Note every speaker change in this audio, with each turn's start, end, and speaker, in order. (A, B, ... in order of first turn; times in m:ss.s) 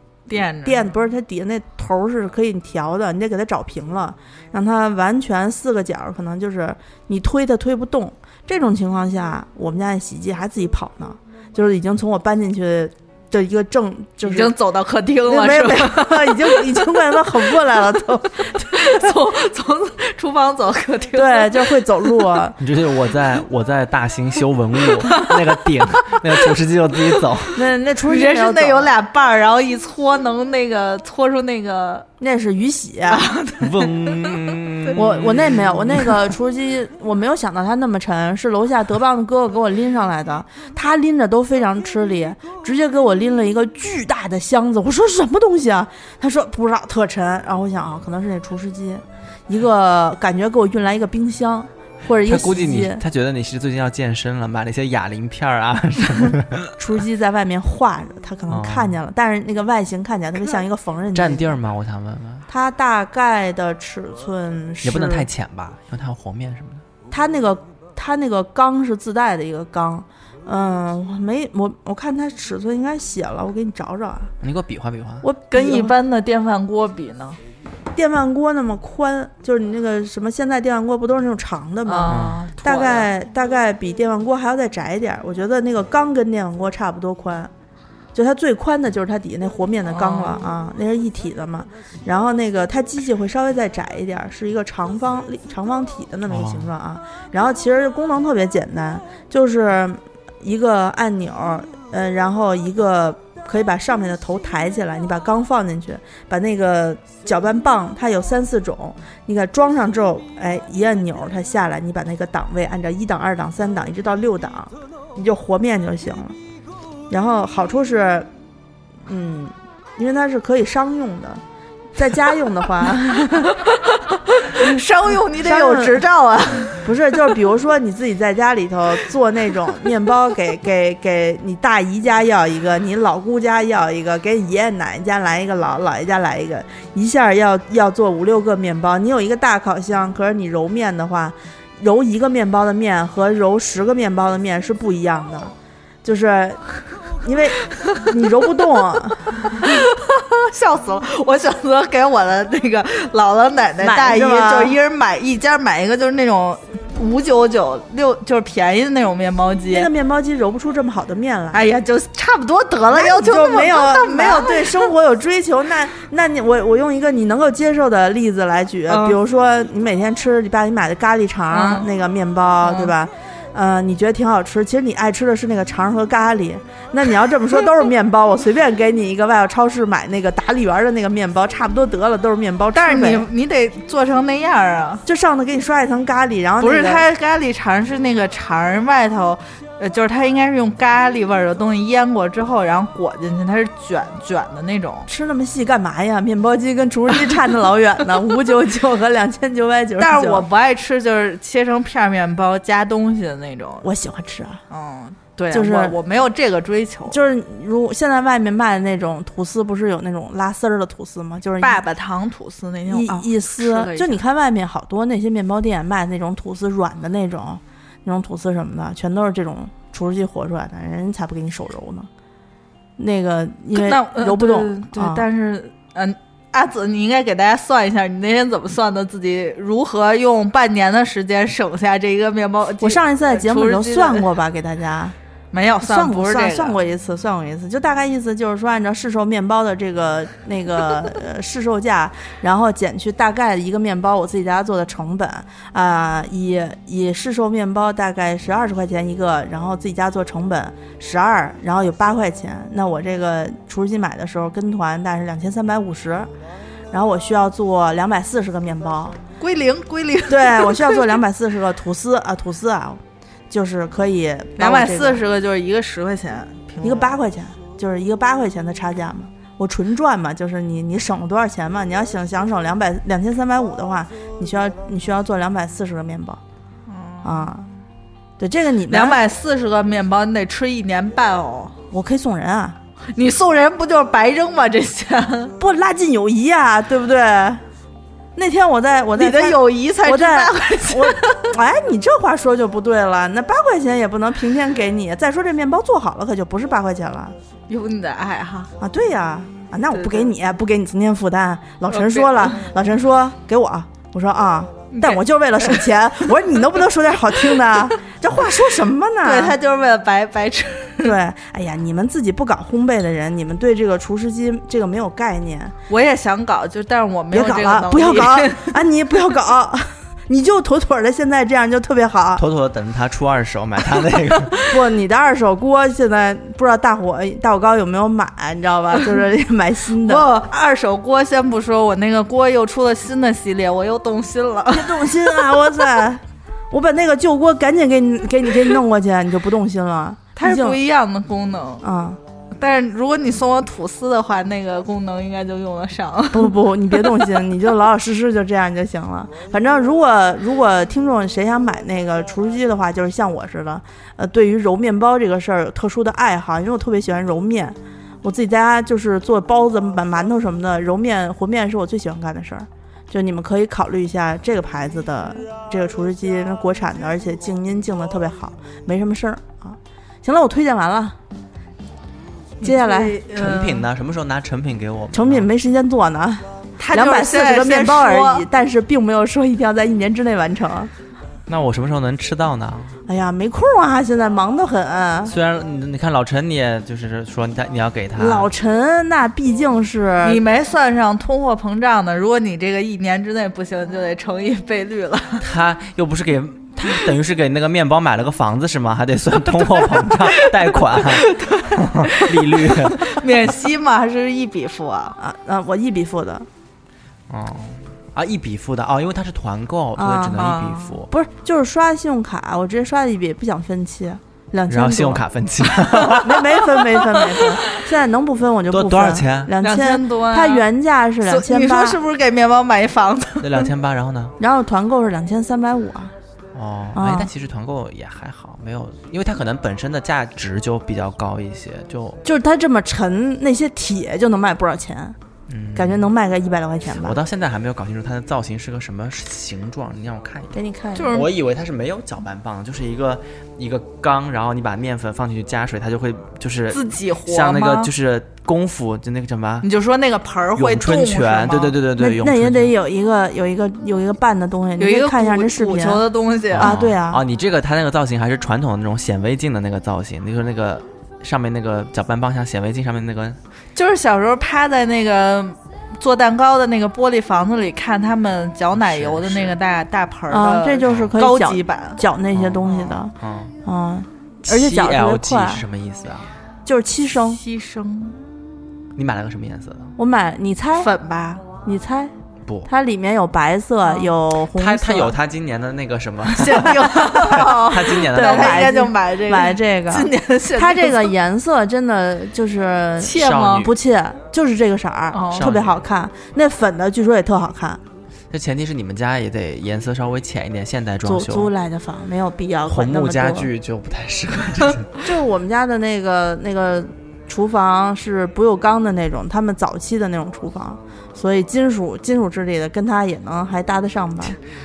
0:00.3-0:00.9 A
0:00.6-0:14.5 B
0:14.2-0:16.8 A
0:15.3-0:18.9 B
0:18.6-0:22.2 A
0:21.1-0:22.6 B
0:22.6-0:27.6 C
0:25.0-0:26.4 A
0:27.5-0:28.9 B
0:28.0-0:32.1 A
0:32.2-0:33.2 B
0:33.1-0:34.9 A
0:33.6-0:36.2 C
0:34.9-0:53.0 B
0:52.2-0:56.7 C
0:56.8-1:01.5 B
0:58.5-0:59.0 C
1:01.1-1:02.5 C
1:02.5-1:05.3 B
1:04.8-1:06.8 C
1:07.1-1:14.3 B
1:14.4-1:15.2 C
1:15.2-1:15.9 B
1:15.5-1:17.4 A
1:17.9-1:27.5 B
1:21.8-1:23.1 A
1:22.1-1:22.4 C
1:28.1-1:56.4 B
1:29.9-1:30.4 A
1:36.3-1:36.7 C
1:57.1-1:58.3 B
1:59.0-2:01.4 B
2:02.0-2:03.6 B
2:03.2-2:06.8 A
2:05.4-2:06.0 B
2:06.8-2:25.5 B
2:26.0-2:26.6 B
2:27.2-2:29.3 B
2:29.5-2:39.9 A
2:33.8-2:34.8 B
2:39.7-2:41.6 B
2:41.5-2:44.9 A
2:42.9-3:03.3 B
2:48.9-2:49.2 A
2:51.5-2:51.9 A
2:52.6-2:52.9 A
3:02.7-3:05.0 A
3:05.0-3:07.0 B
3:06.6-3:15.1 A
3:15.1-3:20.4 B
3:20.0-3:23.9 A
3:23.8-3:24.6 B
3:24.7-3:27.2 A
3:25.5-3:26.0 B
3:27.1-3:31.8 B
3:31.6-3:34.2 A
3:32.9-3:42.1 B
3:43.0-3:45.2 B
3:43.7-3:54.3 A
3:52.8-3:55.1 B
3:55.5-3:56.8 A
3:55.8-4:16.3 B
4:16.9-4:19.2 B
4:19.4-4:21.2 A
4:20.3-4:25.2 B
4:24.6-4:27.1 A
4:26.8-4:36.4 B
4:36.9-4:37.6 A
4:37.2-4:37.7 B
4:38.4-4:39.2 B
4:38.9-4:41.8 A
4:41.9-4:42.8 B
4:43.1-4:45.5 A
4:45.6-4:47.6 B
4:48.3-4:57.3 B
4:49.2-4:51.5 A
4:57.7-4:58.7 A
4:58.8-5:09.6 B
4:59.9-5:00.3 A
5:01.9-5:02.6 A
5:04.9-5:05.8 A
5:09.2-5:11.1 A
5:11.0-5:15.7 B
5:15.9-5:18.8 A
5:17.3-5:22.4 B
5:22.4-5:24.6 C
5:24.7-5:30.3 B
5:30.0-5:36.0 A
5:34.7-5:40.8 B
5:40.4-5:41.8 A
5:41.8-5:42.2 B
5:42.6-5:47.4 A
5:46.3-6:11.2 B
6:12.6-6:13.2 B
6:12.6-6:13.9 A
6:13.3-6:15.5 C
6:15.1-6:20.9 B
6:16.8-6:18.4 A
6:21.5-6:23.0 C
6:23.1-6:25.3 B
6:25.3-6:28.5 C
6:28.2-6:30.4 B
6:30.2-6:35.4 A
6:35.4-6:43.2 C
6:40.0-6:45.2 A
6:45.2-6:46.5 B
6:47.3-6:51.1 C
6:50.0-6:50.5 B
6:50.4-6:50.9 A
6:51.1-6:55.2 B
6:54.7-6:56.6 C
6:56.2-7:02.0 B
6:57.0-6:57.5 A
6:58.7-6:59.5 C
6:59.6-7:00.7 A
7:01.2-7:03.7 A
7:03.4-7:04.3 C
7:04.4-7:06.1 B
7:06.5-7:12.2 C
7:06.9-7:07.3 B
7:12.2-7:15.2 B
7:15.5-7:16.1 C
7:15.7-7:17.2 B
7:16.9-7:20.6 C
7:20.5-7:21.1 B
7:21.0-7:21.3 A
7:21.1-7:29.7 C
7:26.7-7:27.9 A
7:29.6-7:31.8 A
7:30.6-7:32.7 C
7:32.0-7:36.0 B
7:34.8-7:36.8 A
7:36.5-7:43.4 C
7:36.6-7:37.2 B
7:43.7-7:52.0 A
7:48.7-7:49.6 C
7:50.3-7:53.1 B
7:50.8-7:51.1 C
7:52.3-7:53.5 C
7:53.6-7:55.6 B
7:54.4-7:56.3 C
7:56.6-7:57.4 B
7:57.2-7:58.2 A
7:59.0-7:59.9 C
8:00.0-8:00.9 B
8:00.8-8:01.4 A
8:01.6-8:02.1 B
8:02.7-8:05.1 B
8:03.8-8:04.1 A
8:04.5-8:08.7 C
8:06.3-8:11.1 A
8:08.1-8:17.8 B
8:13.0-8:13.7 A
8:13.1-8:13.7 C
8:15.1-8:15.5 A
8:15.3-8:15.8 C
8:18.3-8:21.5 C
8:21.0-8:23.5 B
8:22.7-8:25.0 C
8:25.0-8:34.4 B